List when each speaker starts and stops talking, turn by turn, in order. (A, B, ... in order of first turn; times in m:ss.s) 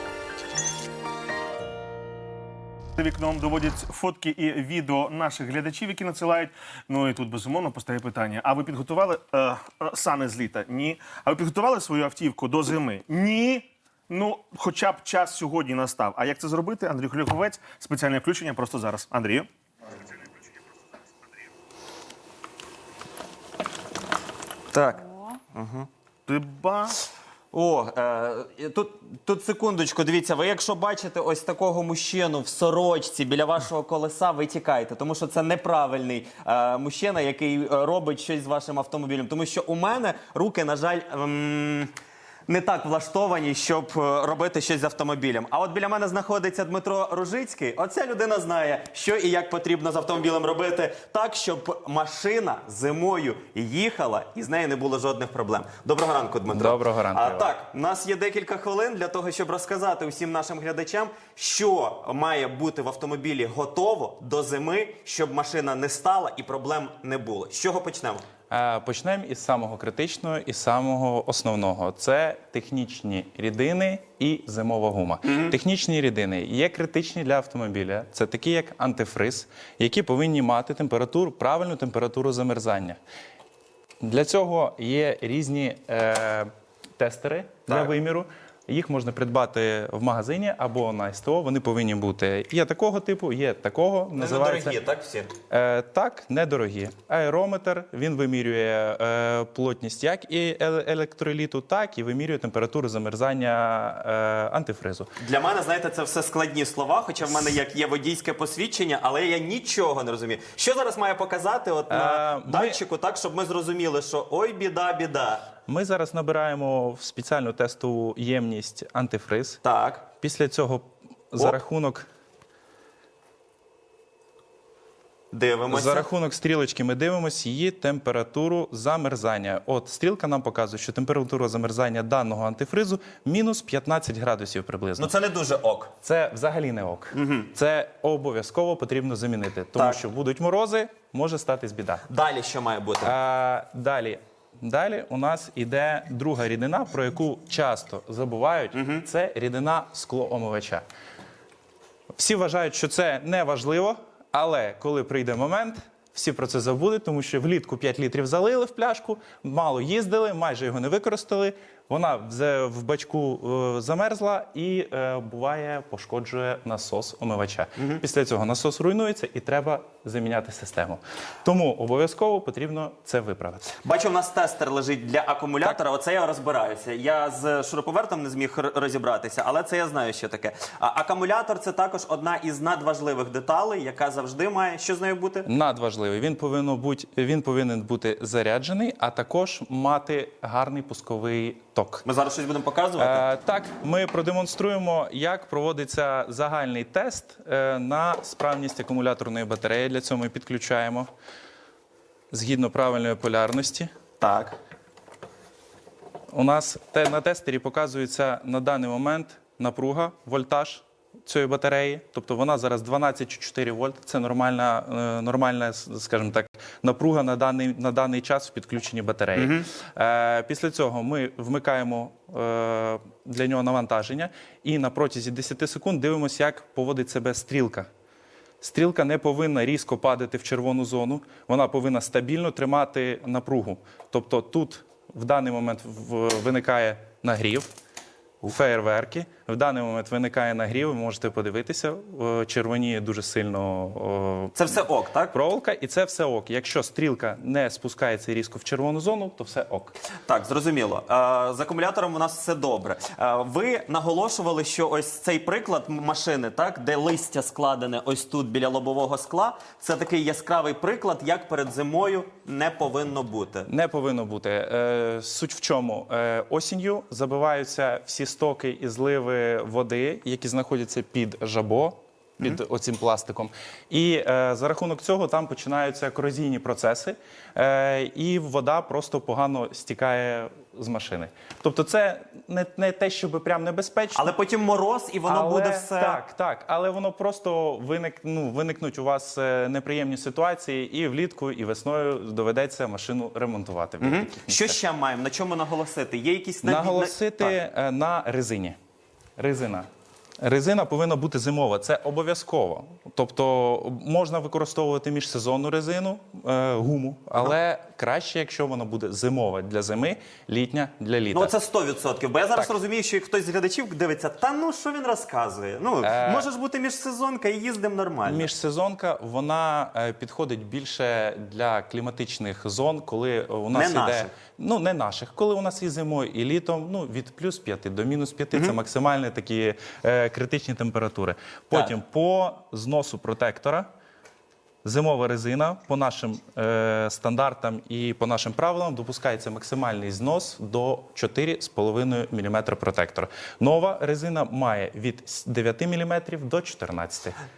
0:03.0-0:19.5 A
0:24.7-0:25.9 B
0:26.3-0:26.9 A
0:27.5-0:41.9 B
0:42.5-1:08.2 B
0:56.5-0:57.5 C
1:08.5-1:23.0 C
1:15.2-1:15.5 B
1:24.0-1:34.8 C
1:27.7-1:27.9 B
1:34.1-1:35.3 B
1:35.5-1:45.1 C
1:45.2-1:55.5 B
1:51.9-1:52.8 C
1:55.7-1:59.6 C
1:59.6-2:00.0 B
2:00.2-2:02.1 C
2:05.3-2:06.1 B
2:05.7-2:15.1 C
2:15.0-2:15.9 B
2:16.0-2:22.0 C
2:17.1-2:17.5 B
2:19.7-2:20.0 B
2:22.1-2:23.2 B
2:23.0-2:30.8 C
2:28.7-2:29.0 B
2:32.2-2:53.7 C
2:47.8-2:48.0 B
2:53.8-3:05.5 B
3:05.4-3:12.0 C
3:12.0-3:13.3 B
3:13.0-3:21.1 C
3:22.3-3:23.9 C
3:24.2-3:24.6 B
3:26.3-3:47.9 C
3:39.3-3:39.7 B
3:48.6-3:57.7 C
3:58.4-4:04.7 C
4:04.5-4:05.4 B
4:05.3-4:09.9 C
4:10.2-4:23.7 B
4:23.6-4:44.3 C
4:44.1-4:46.2 B
4:45.2-4:54.8 C
4:54.0-4:57.6 B
4:56.6-4:58.8 C
4:59.4-4:59.9 C
5:00.4-5:11.5 C
5:11.3-5:18.5 B
5:16.0-5:16.5 C
5:18.2-5:33.9 C
5:23.7-5:24.3 B
5:28.5-5:28.8 B
5:34.8-5:47.3 C